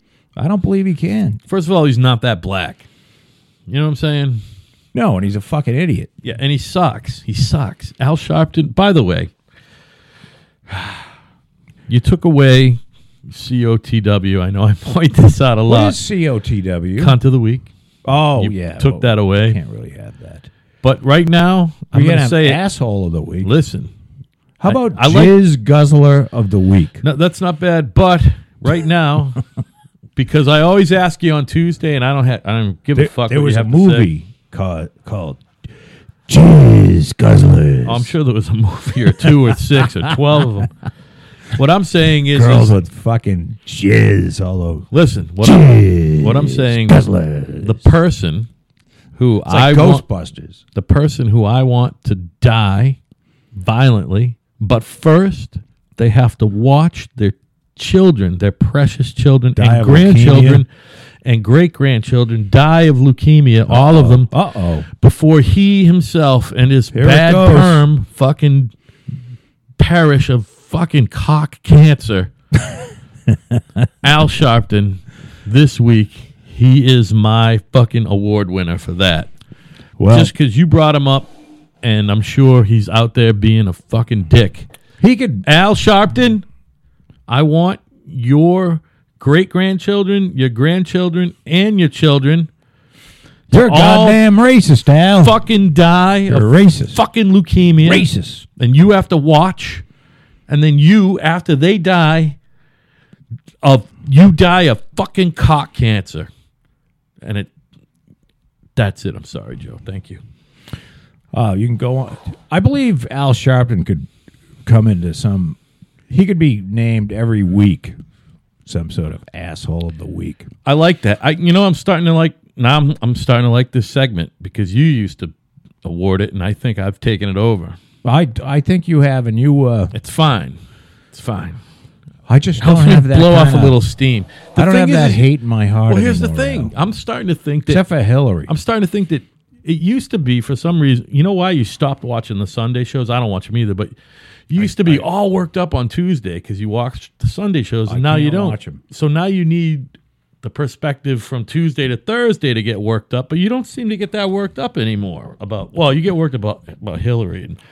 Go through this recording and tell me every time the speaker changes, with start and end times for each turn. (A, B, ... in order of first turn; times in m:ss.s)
0:00.4-0:01.4 A
0:01.5-0:02.8 B
0:03.7-0:04.4 B
0:04.9-0:06.1 A
0:06.2-0:09.3 B
0:11.9-0:16.0 B
0:15.7-0:17.1 A
0:17.0-0:17.7 B
0:18.0-0:20.5 A
0:18.4-0:19.6 B
0:20.8-0:22.6 B
0:21.9-0:23.5 A
0:23.4-0:23.9 B
0:24.6-0:27.0 A
0:24.6-0:25.3 B
0:27.0-0:29.4 B
0:30.2-0:34.1 B
0:33.0-0:35.4 A
0:36.3-0:38.1 A
0:37.8-0:40.7 B
0:39.1-0:40.2 A
0:41.5-0:42.7 B
0:42.3-0:44.9 A
0:44.9-0:48.5 B
0:45.4-0:47.9 A
0:49.2-0:50.0 B
0:49.5-0:50.6 A
0:50.7-0:53.0 B
0:53.6-1:00.7 B
0:59.5-1:00.6 A
1:01.2-1:04.3 B
1:03.7-1:04.9 A
1:04.9-1:08.7 B
1:06.9-1:07.8 A
1:09.8-1:12.3 B
1:14.0-1:19.3 B
1:20.0-1:20.3 A
1:20.1-1:21.3 B
1:21.8-1:24.7 B
1:25.0-1:25.4 A
1:25.4-1:26.4 B
1:27.3-1:32.5 B
1:33.5-1:34.2 B
1:33.5-1:35.4 A
1:35.2-1:39.8 B
1:36.3-1:37.0 A
1:37.8-1:38.4 A
1:40.5-1:42.4 B
1:43.6-1:46.3 B
1:47.2-1:47.5 B
1:48.8-1:50.2 B
1:51.3-1:54.1 A
1:54.6-1:55.6 A
1:56.1-1:57.9 A
1:58.6-2:00.5 A
2:00.6-2:05.3 B
2:05.8-2:07.8 B
2:08.0-2:09.9 A
2:09.9-2:10.6 B
2:11.1-2:11.6 B
2:12.3-2:13.8 A
2:12.6-2:15.3 B
2:14.6-2:16.7 A
2:15.9-2:17.8 B
2:17.7-2:18.5 A
2:18.5-2:23.9 B
2:24.5-2:29.9 B
2:24.6-2:25.0 A
2:27.9-2:28.8 A
2:30.4-2:37.6 B